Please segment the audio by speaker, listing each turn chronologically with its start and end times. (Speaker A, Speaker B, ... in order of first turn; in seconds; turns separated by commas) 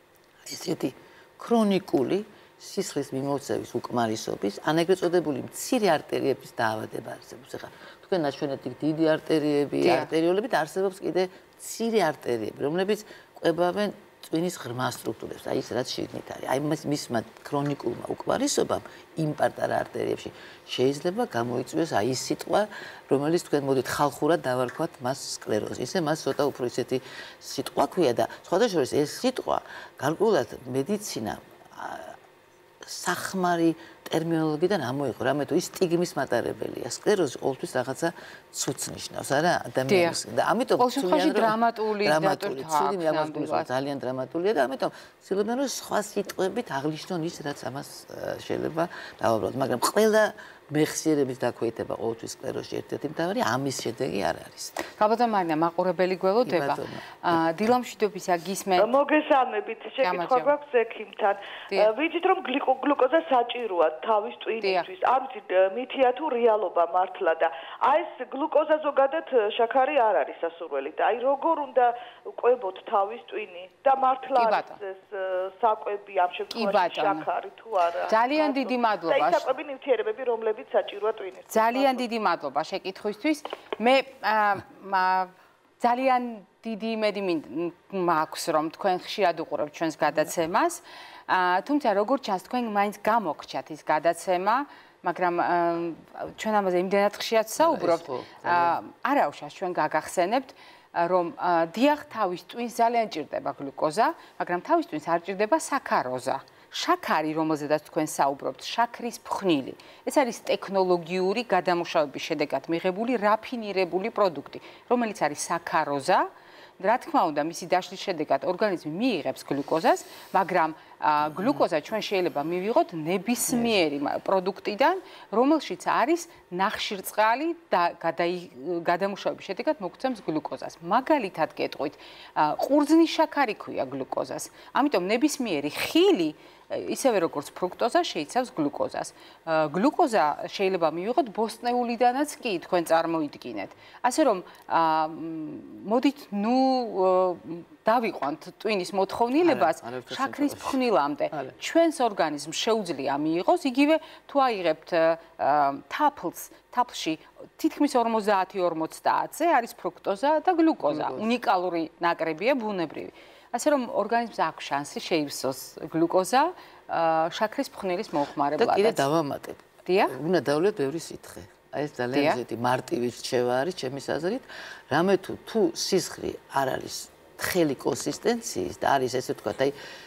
Speaker A: 0.5-32.2, Speaker B: 9.8-10.1, Speaker A: 32.8-54.8, Speaker B: 39.9-40.2, Speaker B: 40.8-43.7, Speaker B: 55.0-58.9, Speaker A: 56.4-57.4, Speaker C: 58.8-82.1, Speaker B: 60.0-60.5, Speaker B: 64.6-64.9, Speaker B: 74.4-74.8, Speaker B: 76.5-77.3, Speaker B: 78.1-79.5, Speaker B: 81.5-116.3, Speaker A: 97.6-98.8, Speaker B: 116.8-169.0, Speaker A: 121.3-121.6, Speaker A: 123.5-123.8, Speaker A: 149.4-151.6, Speaker A: 160.8-161.3, Speaker A: 168.6-179.8, Speaker B: 169.9-170.2, Speaker B: 172.1-172.4